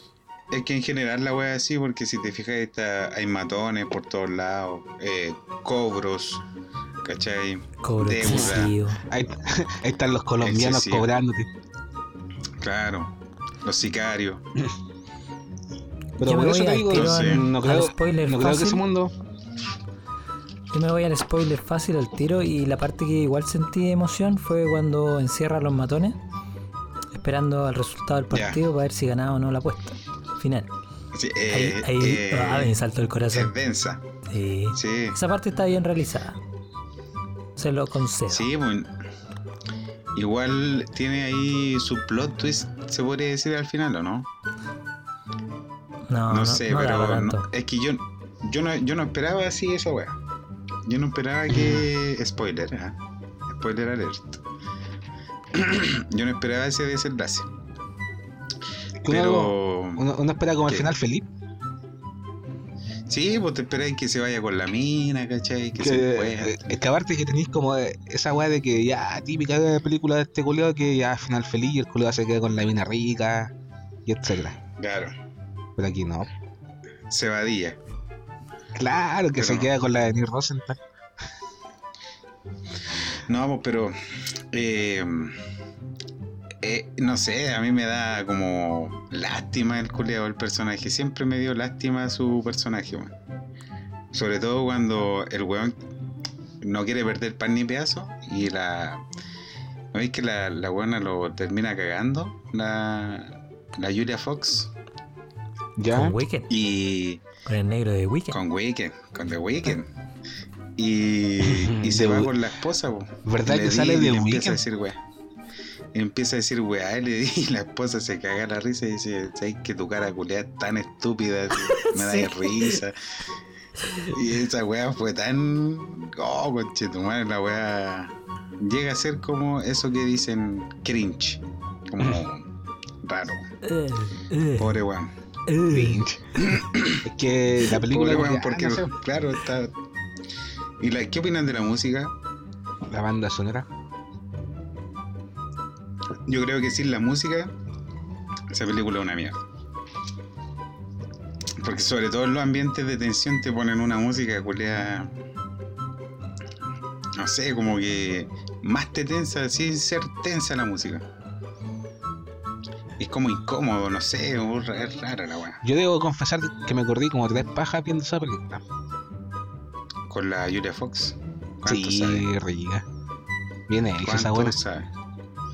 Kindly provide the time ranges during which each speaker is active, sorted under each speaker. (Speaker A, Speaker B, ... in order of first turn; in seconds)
Speaker A: 0.5-6.4, 7.0-8.7, 10.4-11.1, 12.6-13.1, 13.6-14.5, 16.9-17.4, 28.3-28.6, 31.1-32.8, 33.3-34.0, 34.8-35.2, 38.3-38.9, 40.1-44.3, 46.3-50.2, 50.9-53.0, 53.5-54.4, 55.5-57.5, 59.1-60.0, 60.7-60.9, 63.1-66.8, 74.8-75.1, 77.1-77.8, 79.4-79.7, 83.3-84.0, 84.5-85.4, 86.6-93.1, 94.1-95.8, 96.6-99.0, 99.9-104.7, 106.5-107.2, 108.3-109.9, 110.8-115.0, 115.9-123.2, 124.0-132.5, 133.0-133.5, 134.6-135.1, 136.4-137.0, 137.8-139.7, 140.8-142.1, 146.3-147.5, 148.5-149.4, 151.6-155.1, 157.2-161.1, 163.0-165.6, 170.1-172.3, 174.0-174.9
Speaker B: 7.8-9.0, 16.2-18.8, 20.7-26.2, 27.1-30.7, 31.5-33.5, 34.3-36.4, 37.6-38.5, 46.1-47.5, 105.9-106.5, 107.5-108.4, 121.6-122.8, 133.6-134.8, 135.5-136.0
Speaker C: 8.2-11.5, 16.2-19.1, 51.5-51.9, 59.0-61.3, 65.8-73.5, 74.1-74.6, 75.8-76.3, 78.7-80.8, 105.8-106.2, 111.4-112.5, 113.3-114.6, 135.7-136.4, 137.0-138.9, 142.9-143.7, 165.6-168.6, 171.7-172.9, 173.7-174.6